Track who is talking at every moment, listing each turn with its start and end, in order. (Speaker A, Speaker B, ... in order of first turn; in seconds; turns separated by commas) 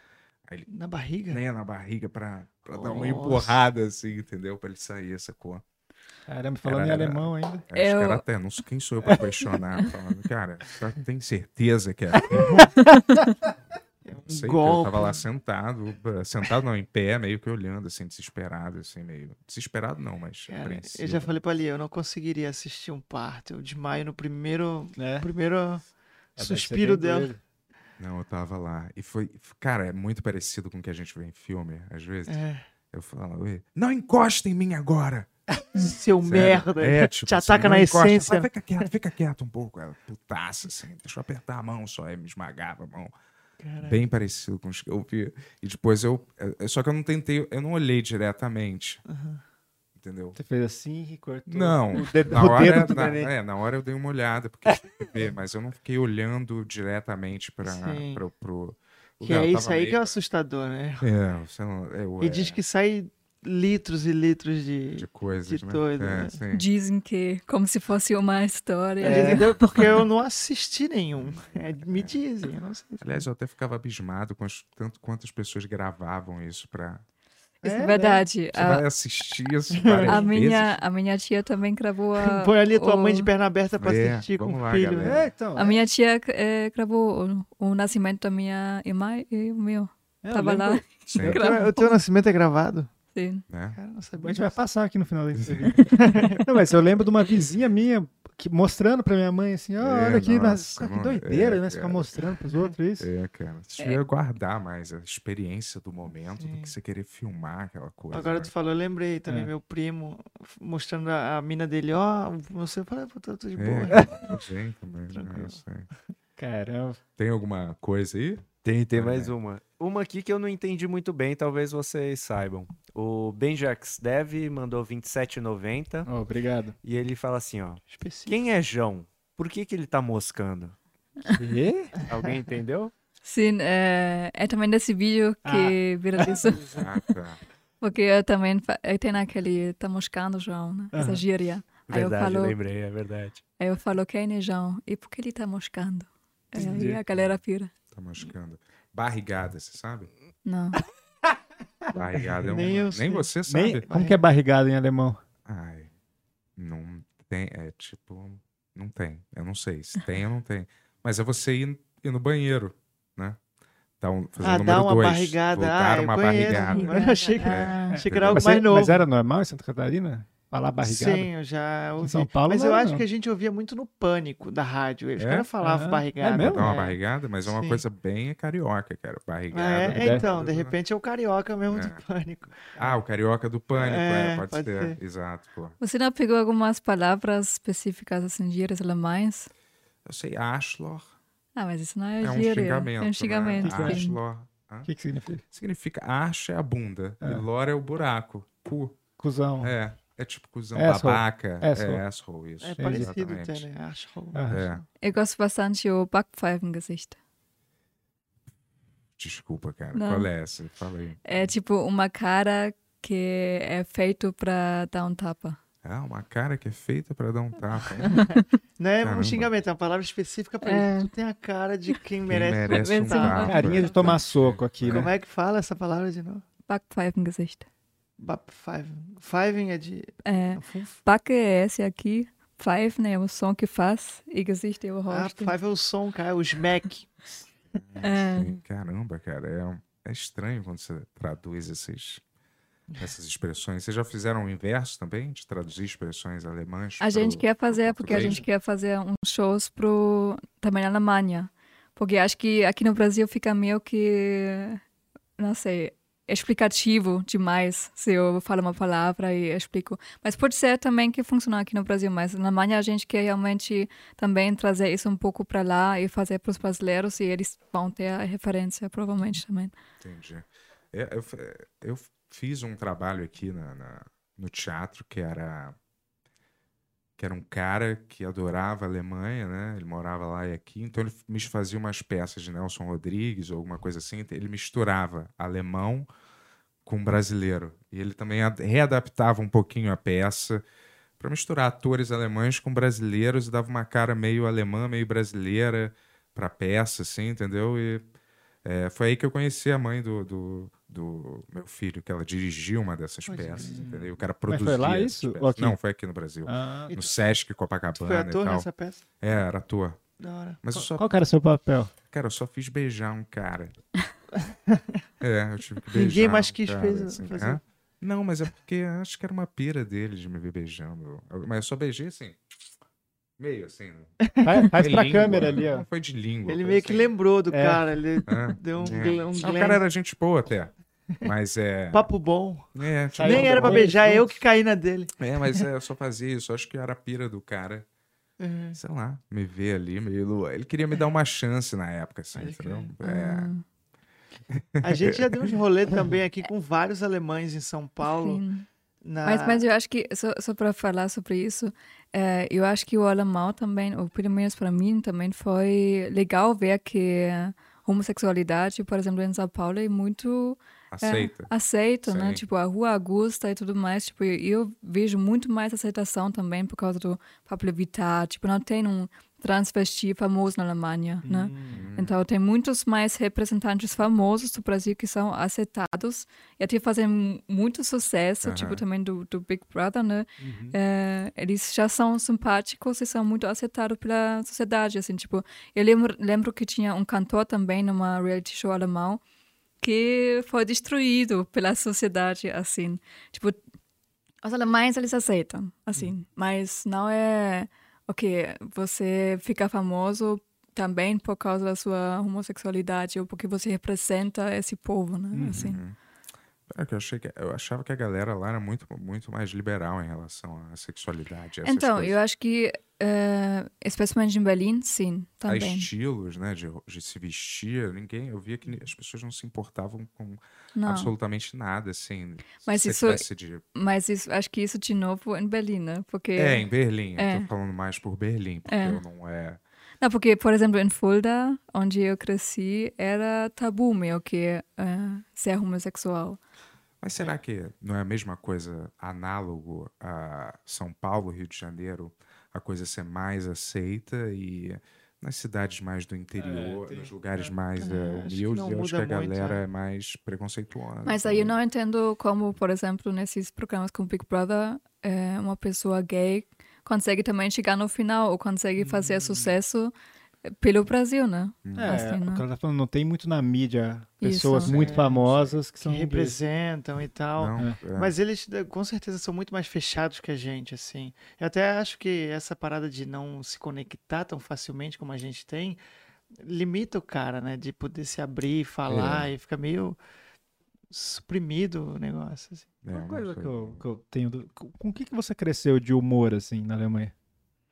Speaker A: 0.7-1.4, Speaker B: 1.3-5.6, Speaker A: 2.7-3.6, Speaker C: 6.3-7.6, Speaker B: 6.6-12.7, Speaker D: 7.7-8.2, Speaker C: 12.3-12.6, Speaker A: 14.1-15.2, Speaker B: 14.2-21.4, Speaker A: 20.5-25.8, Speaker C: 25.0-25.3, Speaker A: 26.4-27.3, Speaker C: 26.4-27.4, Speaker B: 28.0-35.3, Speaker A: 32.3-32.6, Speaker A: 35.7-38.8, Speaker B: 36.2-43.1, Speaker A: 43.6-44.0, Speaker B: 43.8-49.0, Speaker A: 49.1-49.4, Speaker B: 50.0-50.4, Speaker C: 50.4-53.3, Speaker B: 51.5-60.2, Speaker A: 57.6-58.2, Speaker A: 59.2-61.1, Speaker B: 61.0-62.6, Speaker A: 62.2-66.4, Speaker B: 65.0-66.7, Speaker D: 66.5-69.5, Speaker A: 69.0-73.2, Speaker C: 69.0-69.4, Speaker B: 69.5-70.0, Speaker B: 71.2-72.2, Speaker B: 73.0-77.0, Speaker C: 77.6-78.2, Speaker D: 77.6-78.8, Speaker B: 78.5-80.8, Speaker A: 79.8-80.3, Speaker D: 80.0-83.3, Speaker A: 82.2-85.2, Speaker B: 83.8-85.3, Speaker C: 85.0-85.8, Speaker D: 85.5-92.0, Speaker C: 90.2-90.8, Speaker B: 91.1-91.4, Speaker A: 91.2-92.9, Speaker D: 93.1-93.4, Speaker B: 93.5-93.8, Speaker A: 93.7-94.6, Speaker C: 94.2-103.1, Speaker B: 95.3-95.8, Speaker A: 95.9-96.5, Speaker B: 99.8-102.2, Speaker B: 103.0-108.5, Speaker A: 106.4-106.7, Speaker A: 108.1-114.2, Speaker B: 113.5-115.9, Speaker C: 113.9-114.3, Speaker A: 115.1-115.6, Speaker C: 116.4-117.0, Speaker B: 117.2-119.3, Speaker E: 118.6-126.1, Speaker C: 126.0-126.7, Speaker E: 126.8-130.8, Speaker A: 127.9-128.4, Speaker C: 131.3-131.9, Speaker E: 132.1-132.9, Speaker D: 133.2-136.8, Speaker C: 135.4-136.3, Speaker B: 136.7-137.4, Speaker D: 137.8-142.6, Speaker C: 140.9-141.2, Speaker E: 141.9-143.4, Speaker D: 143.6-147.7, Speaker C: 146.6-147.0, Speaker B: 147.0-147.4, Speaker B: 147.9-150.1, Speaker D: 150.4-150.8, Speaker B: 151.9-153.8, Speaker A: 152.3-153.3, Speaker C: 153.5-155.2, Speaker A: 153.9-154.2, Speaker B: 155.4-155.9, Speaker B: 156.6-163.4, Speaker B: 164.0-168.5, Speaker A: 164.4-169.0, Speaker C: 166.3-167.3, Speaker C: 167.9-171.3, Speaker A: 170.8-177.8, Speaker C: 172.0-173.1, Speaker B: 175.2-175.5, Speaker C: 175.6-176.7, Speaker B: 176.4-180.7, Speaker A: 179.5-182.7, Speaker C: 179.9-180.2, Speaker B: 181.7-182.0, Speaker B: 182.8-185.8, Speaker A: 183.7-185.0, Speaker D: 185.8-189.5, Speaker B: 190.1-191.1, Speaker D: 191.6-194.2, Speaker B: 192.2-194.9, Speaker C: 193.6-194.0, Speaker C: 194.8-195.4, Speaker B: 195.5-199.0, Speaker C: 199.2-199.7, Speaker B: 199.6-203.7, Speaker C: 200.7-202.0, Speaker A: 202.6-204.8, Speaker C: 202.8-203.1, Speaker C: 204.3-204.6, Speaker B: 204.5-204.8, Speaker D: 205.0-207.2, Speaker B: 209.2-211.5, Speaker D: 209.9-210.3, Speaker D: 211.2-215.6, Speaker B: 215.8-218.2, Speaker D: 218.1-218.4, Speaker A: 218.8-224.2, Speaker B: 219.0-219.5, Speaker D: 220.6-221.1, Speaker B: 222.3-225.1, Speaker D: 222.7-223.9, Speaker C: 223.4-225.1, Speaker A: 224.8-226.4, Speaker D: 226.7-227.7, Speaker A: 228.2-230.9, Speaker D: 230.2-235.6, Speaker A: 235.1-237.1, Speaker B: 237.7-242.2, Speaker D: 238.0-238.5, Speaker B: 243.0-248.4, Speaker D: 247.0-254.8, Speaker A: 248.1-248.4, Speaker D: 255.4-269.7, Speaker B: 270.0-275.8, Speaker B: 277.2-286.1, Speaker B: 286.8-290.6, Speaker B: 291.2-298.1, Speaker B: 298.6-308.7, Speaker A: 303.3-304.0, Speaker C: 303.6-305.8, Speaker C: 306.4-307.0, Speaker A: 307.9-309.0, Speaker B: 309.2-310.0, Speaker A: 310.2-310.6, Speaker B: 310.6-311.1, Speaker C: 310.7-311.9, Speaker B: 312.1-313.8, Speaker A: 314.4-315.0, Speaker B: 315.2-322.4, Speaker A: 315.9-317.6, Speaker B: 323.4-324.1, Speaker A: 324.3-325.6, Speaker C: 324.4-325.9, Speaker B: 324.7-327.1, Speaker A: 326.5-329.8, Speaker C: 327.5-328.2, Speaker B: 328.3-332.1, Speaker C: 328.8-329.1, Speaker A: 331.9-335.1, Speaker B: 332.7-333.9, Speaker C: 333.1-334.3, Speaker B: 335.2-337.9, Speaker A: 338.4-338.8, Speaker B: 338.7-343.5, Speaker A: 342.3-342.9, Speaker D: 343.0-343.6, Speaker B: 344.5-345.5, Speaker A: 344.8-348.4, Speaker D: 348.0-348.6, Speaker A: 349.0-349.6, Speaker D: 349.2-389.2, Speaker B: 360.9-361.5, Speaker B: 362.0-362.4, Speaker C: 371.2-371.9, Speaker B: 371.7-372.1, Speaker B: 378.4-378.8, Speaker C: 380.4-380.8, Speaker D: 389.8-393.6, Speaker D: 394.4-405.8, Speaker C: 405.3-405.8, Speaker B: 405.5-405.9, Speaker B: 406.7-412.2, Speaker D: 411.6-415.9, Speaker B: 415.4-423.6, Speaker D: 420.8-421.1, Speaker D: 422.6-427.5, Speaker B: 426.4-429.6, Speaker D: 428.6-429.0, Speaker D: 430.0-436.4, Speaker B: 437.0-451.5, Speaker C: 446.4-447.5, Speaker A: 447.8-449.6, Speaker D: 451.0-459.9, Speaker C: 458.8-459.5, Speaker D: 460.4-462.4, Speaker B: 461.6-462.0, Speaker C: 461.8-466.4, Speaker D: 464.2-464.7, Speaker B: 464.6-465.0, Speaker A: 464.6-475.8, Speaker B: 467.4-468.1, Speaker A: 476.4-480.0, Speaker B: 478.9-479.3, Speaker A: 480.9-482.7, Speaker B: 482.8-483.8, Speaker C: 482.9-487.1